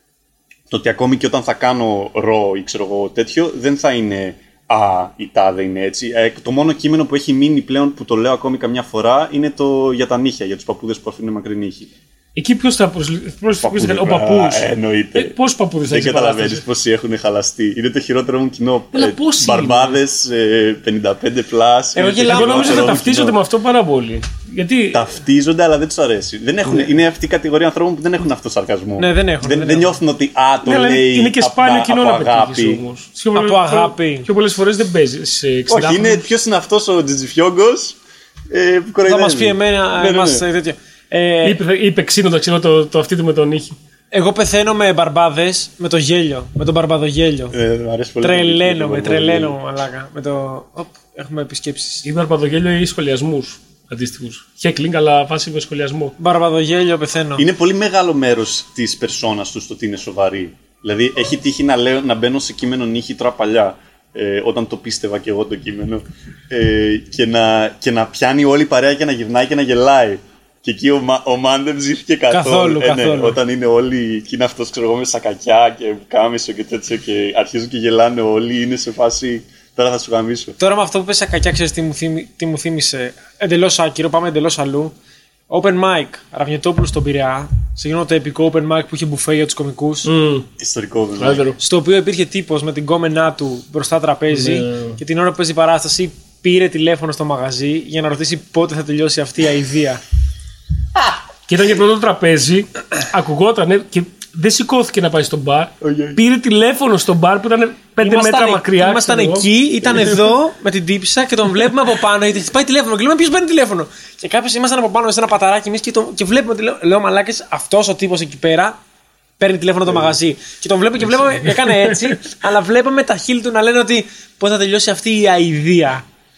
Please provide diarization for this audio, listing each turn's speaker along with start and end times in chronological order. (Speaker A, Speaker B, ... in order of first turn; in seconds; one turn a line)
Speaker A: 0.7-11.9
Speaker B: 12.3-16.6
Speaker A: 13.6-15.4
Speaker A: 15.9-23.4
Speaker B: 18.9-20.0
Speaker C: 21.9-23.0
Speaker B: 22.3-25.1
Speaker A: 24.9-32.8
Speaker C: 29.0-29.9
Speaker B: 30.6-36.3
Speaker C: 33.3-34.3
Speaker A: 35.7-38.0
Speaker A: 38.5-40.4
Speaker C: 39.0-41.6
Speaker B: 41.4-43.8
Speaker C: 44.1-47.6
Speaker A: 47.5-49.5
Speaker C: 48.2-52.0
Speaker B: 52.0-56.1
Speaker C: 56.2-57.5
Speaker A: 57.4-80.6
Speaker C: 72.3-73.4
Speaker C: 80.6-84.9
Speaker C: 85.5-90.1
Speaker B: 90.0-90.5
Speaker A: 90.6-91.5
Speaker B: 91.2-91.6
Speaker C: 91.6-100.0
Speaker B: 94.3-95.0
Speaker B: 101.5-109.5
Speaker A: 105.8-106.2
Speaker C: 108.0-118.8
Speaker A: 109.8-110.1
Speaker C: 119.4-126.0
Speaker A: 119.8-120.2
Speaker B: 121.4-122.2